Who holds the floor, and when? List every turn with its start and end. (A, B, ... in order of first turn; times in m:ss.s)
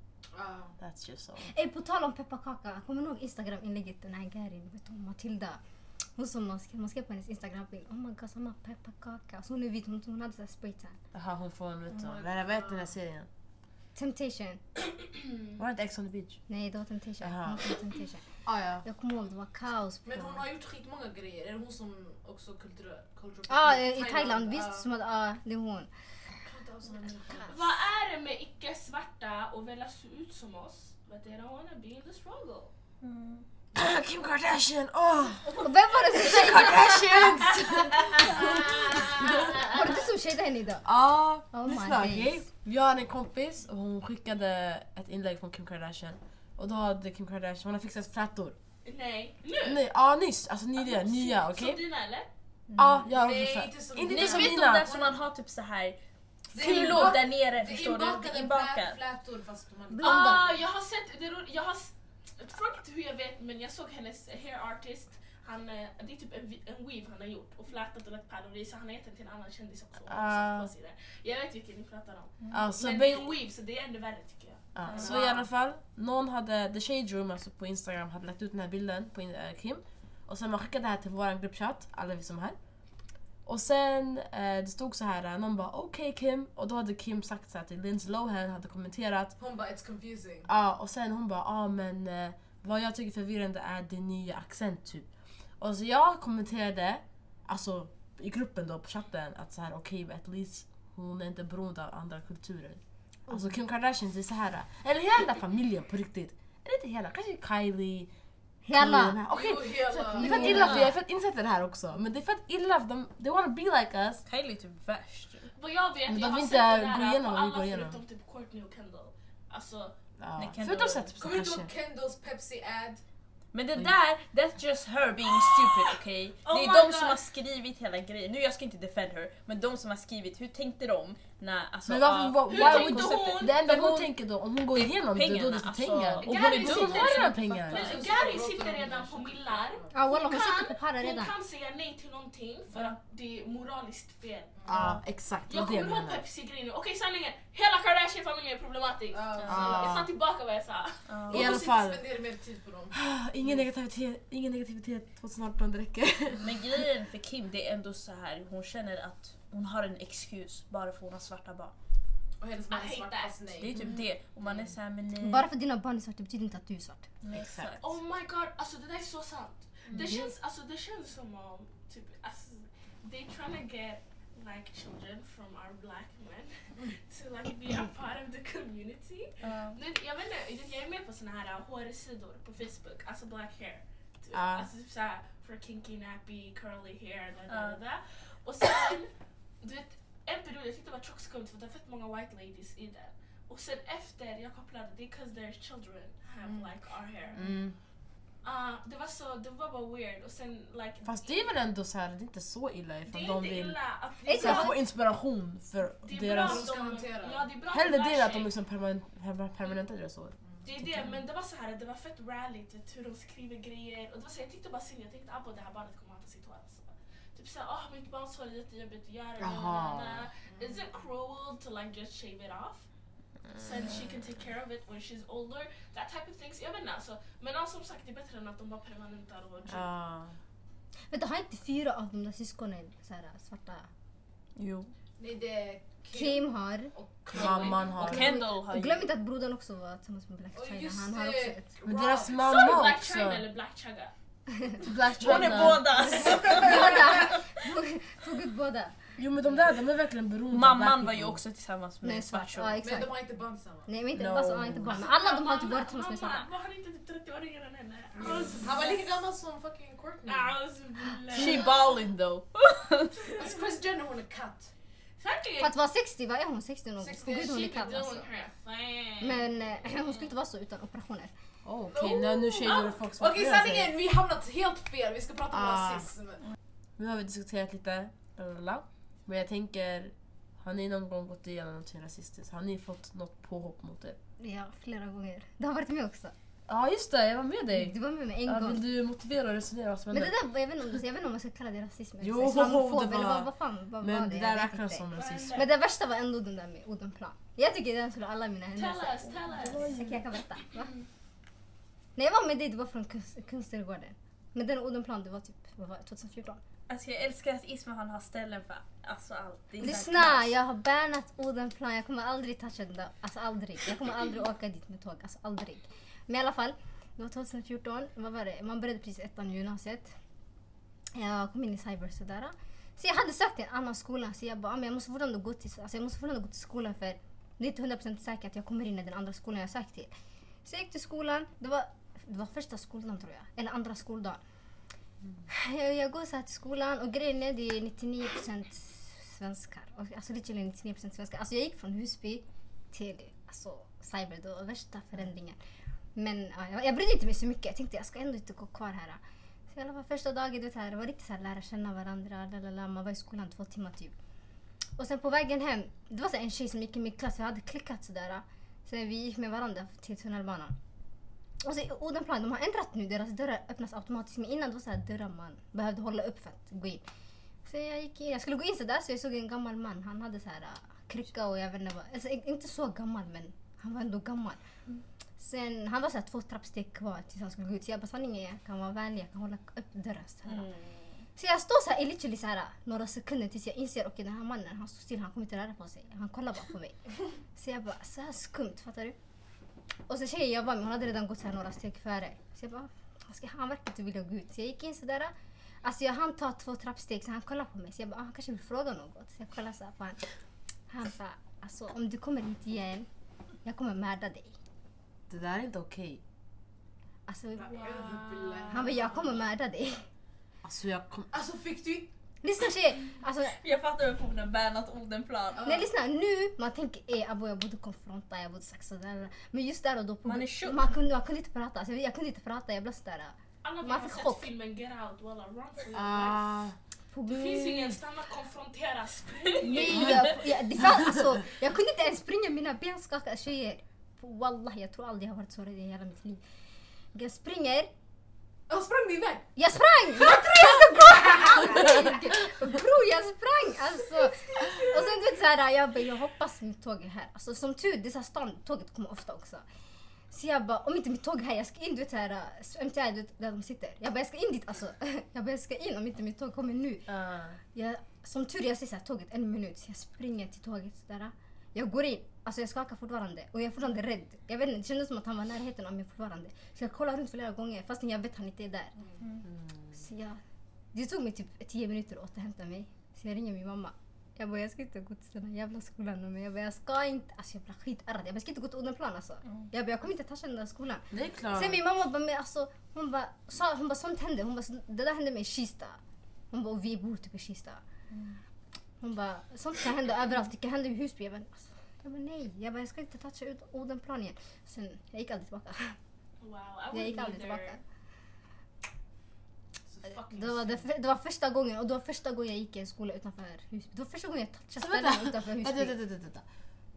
0:00.3-0:00.8 A
0:00.8-0:01.5 B
0:01.4-0:05.6 C
0:06.2-0:11.0 C
0:11.1-0:13.3 B
0:11.9-0:12.9 A
0:13.9-0:14.6 C
0:15.1-0:15.6 D
0:15.6-0:16.4 B
0:16.5-0:18.3 C
0:17.2-0:17.7 B
0:18.4-0:18.8 B
0:18.8-0:20.4 C
0:20.0-0:24.8 A
0:23.5-0:25.9 C
0:26.4-0:27.7 A
0:27.4-0:32.7 D
0:33.0-0:33.4 E
0:33.7-0:39.6 B
0:35.6-0:37.1 C
0:37.4-0:40.0 D
0:38.2-0:38.7 C
0:39.4-0:40.8 C
0:40.8-0:48.6 B
0:41.5-0:42.4 C
0:48.8-0:49.8 D
0:49.6-0:51.8 B
0:50.8-0:52.3 D
0:52.8-0:54.9 B
0:53.1-0:55.2 A
0:54.1-0:56.0 E
0:56.5-0:59.0 E
0:56.5-1:00.6 A
1:00.0-1:00.4 B
1:00.0-1:15.4 D
1:10.1-1:10.7 B
1:12.5-1:13.3 B
1:14.8-1:22.6 B
1:14.8-1:15.2 E
1:23.4-1:29.4 B
1:29.4-1:30.5 A
1:30.5-1:35.1 B
1:35.6-1:48.1 B
1:48.6-1:49.2 C
1:48.7-1:54.2 B
1:49.2-1:50.8 A
1:50.2-1:50.8 C
1:50.2-1:51.0 E
1:54.3-1:55.5 E
1:55.5-2:00.0 D
1:56.1-1:58.0 B
2:00.2-2:01.7 B
2:00.4-2:01.1 E
2:01.2-2:03.0 A
2:03.5-2:14.1 E
2:06.4-2:07.2 D
2:11.9-2:18.0 B
2:12.5-2:13.7 D
2:14.7-2:17.3 E
2:16.2-2:24.8 D
2:16.5-2:19.9 A
2:19.9-2:21.3 C
2:24.6-2:25.0 A
2:24.7-2:26.2 B
2:25.5-2:31.1 D
2:29.1-2:30.0 A
2:29.5-2:30.1 B
2:31.1-2:31.5 E
2:31.3-2:33.6 A
2:31.3-2:32.0 B
2:32.9-2:36.8 B
2:36.4-2:41.7 E
2:42.4-2:44.0 A
2:42.7-2:43.5 D
2:43.6-2:45.5 E
2:45.2-2:47.1 C
2:47.2-2:48.0 E
2:47.3-2:47.7 B
2:47.8-3:17.5 D
2:49.9-2:50.2 A
2:59.4-2:59.8 E
3:04.3-3:04.7 B
3:07.5-3:07.8 E
3:16.4-3:16.9 A
3:17.4-3:17.8 B
3:18.4-3:21.5 D
3:21.0-3:23.8 B
3:23.0-3:24.8 D
3:24.2-3:24.7 C
3:24.4-3:26.7 B
3:26.0-3:28.5 D
3:26.4-3:27.5 A
3:27.7-3:31.2 B
3:30.6-3:42.9 D
3:39.4-3:40.3 B
3:40.4-3:41.0 A
3:43.5-3:49.9 D
3:49.7-3:50.4 B
3:51.1-3:53.9 C
3:54.6-3:54.9 E
3:55.2-3:58.0 A
3:56.1-3:56.9 C
3:57.3-3:58.3 B
3:57.5-3:59.0 E
3:58.0-4:01.7 C
4:00.5-4:02.4 A
4:01.8-4:03.4 B
4:02.1-4:04.1 D
4:04.8-4:06.9 B
4:05.0-4:07.6 E
4:06.1-4:09.1 C
4:09.2-4:11.4 B
4:10.5-4:12.8 E
4:12.0-4:13.2 C
4:12.8-4:13.9 A
4:13.8-4:16.5 C
4:14.1-4:15.0 B
4:14.9-4:19.0 D
4:18.2-4:20.5 A
4:20.2-4:21.9 D
4:21.3-4:23.2 E
4:23.3-4:23.5 D
4:23.4-4:24.7 A
4:25.2-4:25.7 D
4:25.6-4:28.3 C
4:27.0-4:28.0 A
4:27.3-4:30.2 D
4:29.2-4:31.3 C
4:31.6-4:33.9 B
4:31.9-4:36.4 A
4:32.6-4:33.0 D
4:35.5-4:36.1 B
4:37.0-4:44.2 B
4:44.4-4:46.3 C
4:46.7-4:50.3 B
4:47.7-4:48.8 C
4:50.1-5:00.9 C
4:52.2-4:55.6 B
4:55.1-4:55.7 D
4:58.7-5:00.1 D
5:00.6-5:01.0 D
5:02.2-5:06.6 C
5:06.9-5:10.5 E
5:09.8-5:20.1 C
5:21.1-5:30.1 C
5:30.6-5:34.4 C
5:35.5-5:45.6 C
5:46.1-5:54.1 C
5:55.0-6:00.8 C
6:01.6-6:07.0 C
6:07.6-6:14.6 C
6:15.4-6:20.7 C
6:20.5-6:21.2 E
6:21.4-6:29.2 C
6:30.1-6:40.3 C
6:40.9-6:43.1 C
6:43.6-6:44.5 C
6:45.3-6:46.2 B
6:47.3-6:47.9 C
6:47.6-6:49.4 A
6:47.9-6:48.7 D
6:48.7-6:50.1 C
6:50.6-6:51.3 B
6:51.3-6:52.1 A
6:52.4-6:53.6 C
6:53.4-6:55.6 E
6:55.6-6:55.9 A
6:55.6-7:04.5 C
7:00.2-7:00.8 E
7:03.6-7:06.6 D
7:05.9-7:06.8 B
7:07.1-7:08.0 C
7:07.2-7:10.4 D
7:09.6-7:10.2 E
7:09.6-7:16.4 C
7:17.1-7:17.9 C
7:18.7-7:19.5 A
7:19.6-7:29.6 C
7:20.2-7:22.4 A
7:24.5-7:24.8 A
7:30.3-7:37.1 C
7:37.1-7:37.6 B
7:37.7-7:49.0 C
7:49.9-7:50.4 C
7:50.9-8:06.0 C
8:01.1-8:01.8 B
8:06.5-8:07.8 C
8:08.1-8:08.4 E
8:09.0-8:16.0 C
8:16.4-8:17.8 D
8:16.9-8:17.8 C
8:19.8-8:20.9 A
8:20.3-8:25.9 C
8:24.8-8:26.4 B